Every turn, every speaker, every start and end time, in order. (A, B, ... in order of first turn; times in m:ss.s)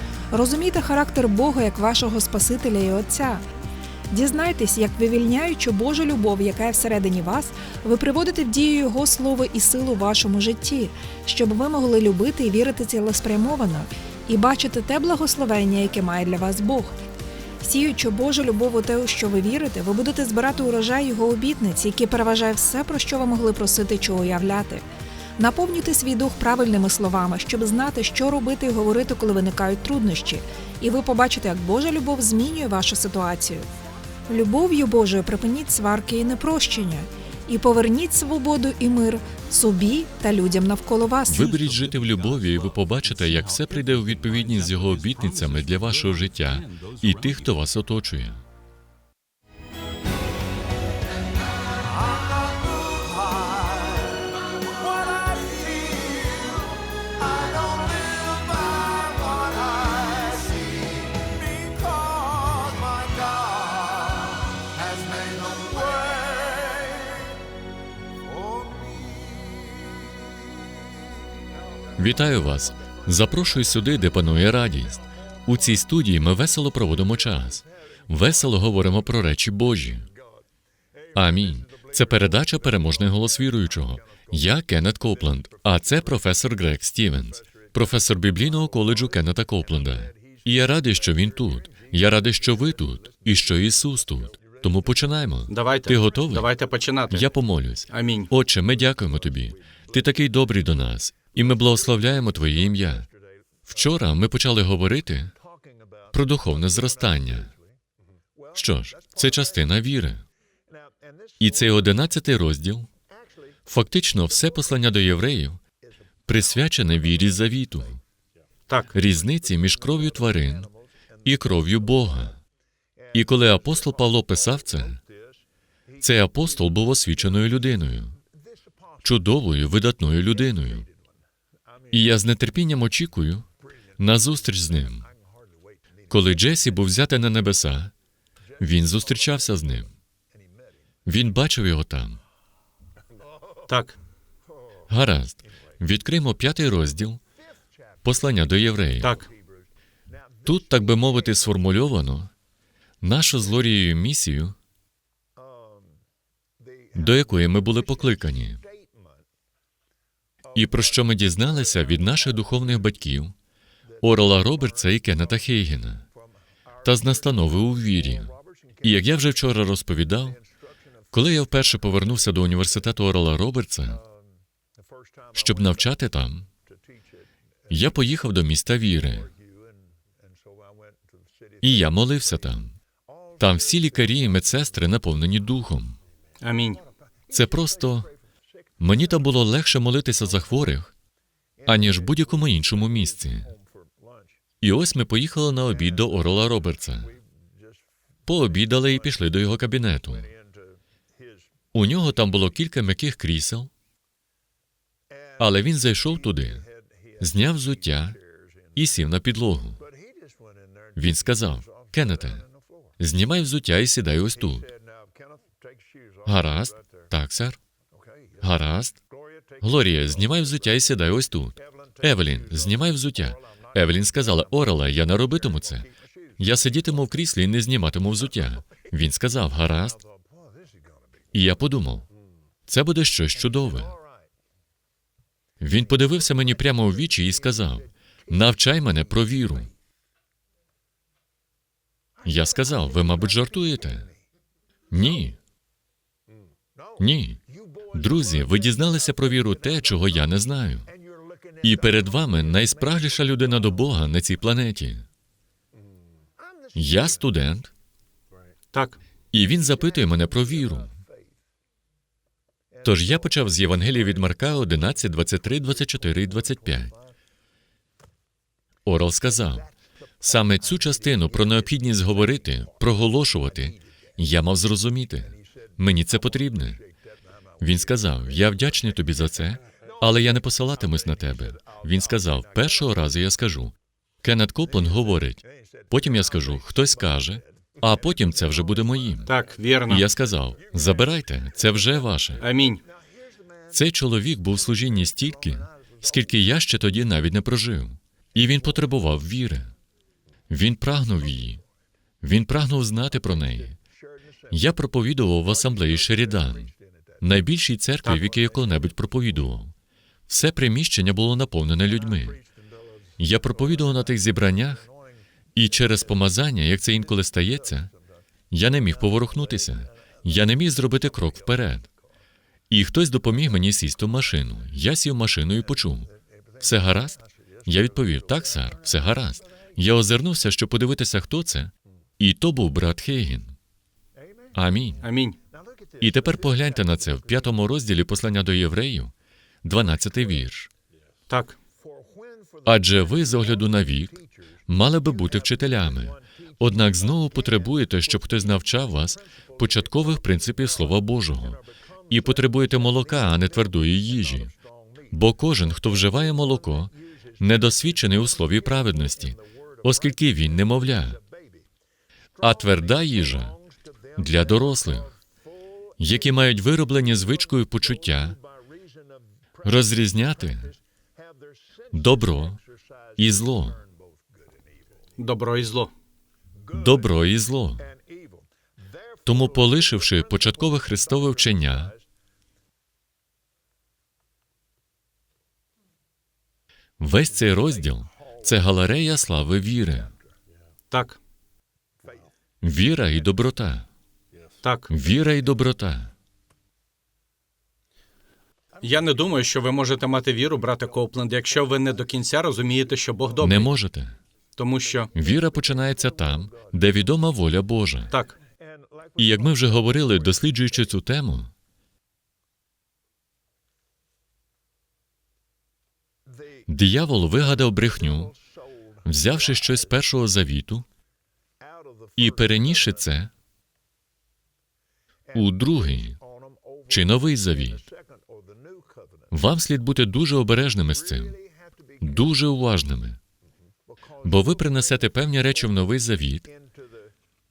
0:00.3-0:03.4 A
0:04.1-0:17.0 A
0:17.6-0:24.8 A
0:25.4-0:33.7 A
0:34.3-0:41.6 A
0:41.3-0:48.4 B
1:12.0-1:20.1 B
1:21.2-1:36.5 B
1:35.5-1:37.3 C
1:37.1-1:43.1 B
1:37.9-1:38.3 C
1:43.7-1:45.3 B
1:46.1-1:47.6 B
1:48.5-1:50.2 B
1:51.4-1:52.9 B
1:53.7-1:55.6 B
1:56.3-1:58.0 B
1:58.7-1:59.0 C
1:58.9-2:00.7 B
2:01.2-2:02.4 B
2:03.1-2:05.0 B
2:06.0-2:08.2 B
2:09.0-2:10.9 B
2:11.9-2:13.5 B
2:14.0-2:15.1 B
2:16.1-2:17.9 B
2:18.6-2:19.9 B
2:21.1-2:22.2 B
2:23.7-2:24.0 C
2:24.9-2:27.2 B
2:28.0-2:29.2 B
2:29.0-2:29.3 C
2:30.4-2:32.3 B
2:33.0-2:34.6 B
2:36.9-2:38.6 B
2:40.6-2:43.4 B
2:44.0-2:46.1 B
2:46.8-2:50.4 B
2:51.1-2:54.0 B
2:55.3-2:56.5 B
2:57.7-2:59.3 B
3:01.6-3:02.8 B
3:03.4-3:06.0 B
3:06.4-3:06.8 C
3:07.3-3:08.1 B
3:08.8-3:10.9 B
3:11.6-3:13.5 B
3:14.6-3:17.2 B
3:18.3-3:20.3 B
3:21.7-3:23.7 B
3:25.4-3:26.7 B
3:27.2-3:28.2 B
3:28.8-3:29.8 B
3:31.0-3:32.4 B
3:33.0-3:34.7 B
3:36.2-3:37.6 B
3:38.4-3:39.0 B
3:39.6-3:50.0 B
3:51.3-3:52.1 B
3:52.7-3:54.0 B
3:55.6-3:59.7 B
4:02.2-4:04.1 B
4:04.9-4:05.4 B
4:07.0-4:10.9 B
4:11.6-4:15.0 B
4:16.7-4:17.7 B
4:18.7-4:19.0 C
4:19.3-4:21.0 B
4:22.8-4:27.0 B
4:28.9-4:29.7 B
4:30.2-4:36.8 B
4:37.6-4:49.3 B
4:49.3-4:50.0 C
4:49.9-4:52.4 B
4:52.4-4:52.8 C
4:53.7-4:59.7 B
5:00.5-5:01.6 B
5:02.2-5:03.8 B
5:04.5-5:09.7 B
5:10.3-5:12.4 B
5:13.2-5:14.9 B
5:15.6-5:17.9 B
5:18.5-5:21.9 B
5:22.7-5:26.1 B
5:26.6-5:33.6 B
5:34.5-5:35.0 B
5:35.0-5:35.4 C
5:36.0-5:39.1 B
5:39.6-5:40.7 B
5:41.3-5:41.6 C
5:42.6-5:54.6 B
5:55.1-6:01.2 B
6:02.4-6:03.6 B
6:04.2-6:05.1 B
6:06.0-6:08.4 B
6:09.6-6:10.8 B
6:11.9-6:12.6 B
6:13.2-6:13.8 B
6:15.2-6:15.9 C
6:16.7-6:17.9 B
6:19.2-6:22.0 B
6:27.0-6:30.1 B
6:30.9-6:31.2 C
6:32.6-6:33.9 B
6:34.6-6:34.9 C
6:34.9-6:36.1 B
6:38.8-6:43.7 C
6:43.4-6:44.2 B
6:44.6-6:45.1 C
6:45.1-6:48.1 B
6:48.1-6:48.4 C
6:49.2-6:51.5 B
6:56.7-6:58.4 B
6:59.0-7:00.9 B
7:02.2-7:03.3 B
7:05.3-7:06.2 B
7:06.9-7:07.9 B
7:09.3-7:11.4 B
7:12.0-7:13.2 B
7:14.2-7:16.5 B